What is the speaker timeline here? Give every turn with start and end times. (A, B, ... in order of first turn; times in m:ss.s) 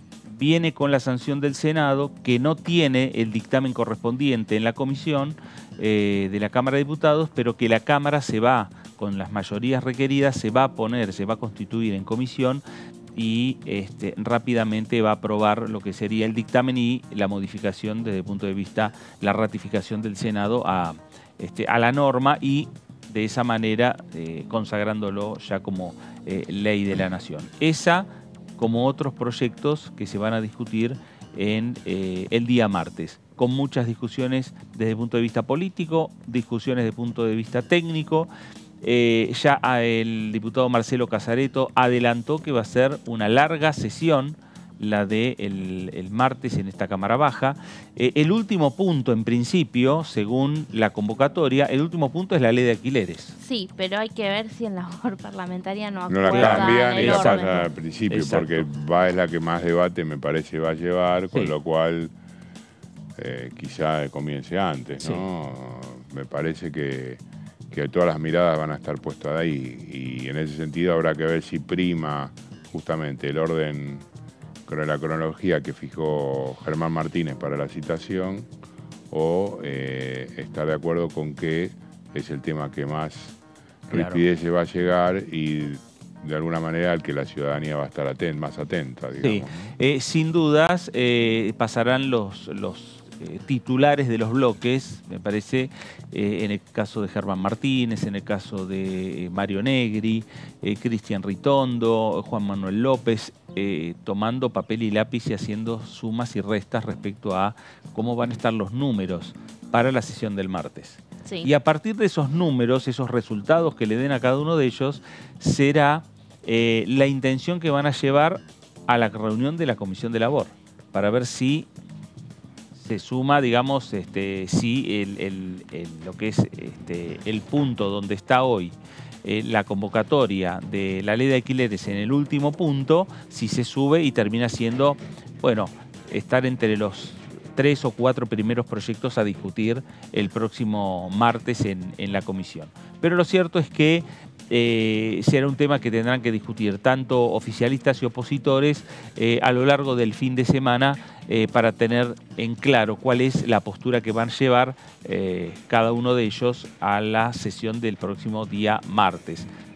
0:00.2-0:12.6 A
0:13.1-0:38.3 A
0:38.8-0:53.4 A
0:53.4-0:57.6 B
0:56.1-1:02.1 C
0:56.3-0:58.7 A
1:03.2-1:14.0 C
1:14.7-1:18.5 C
1:19.1-1:23.4 C
1:23.9-1:24.2 A
1:23.9-1:29.7 C
1:29.2-2:01.7 A
2:02.7-2:39.5 A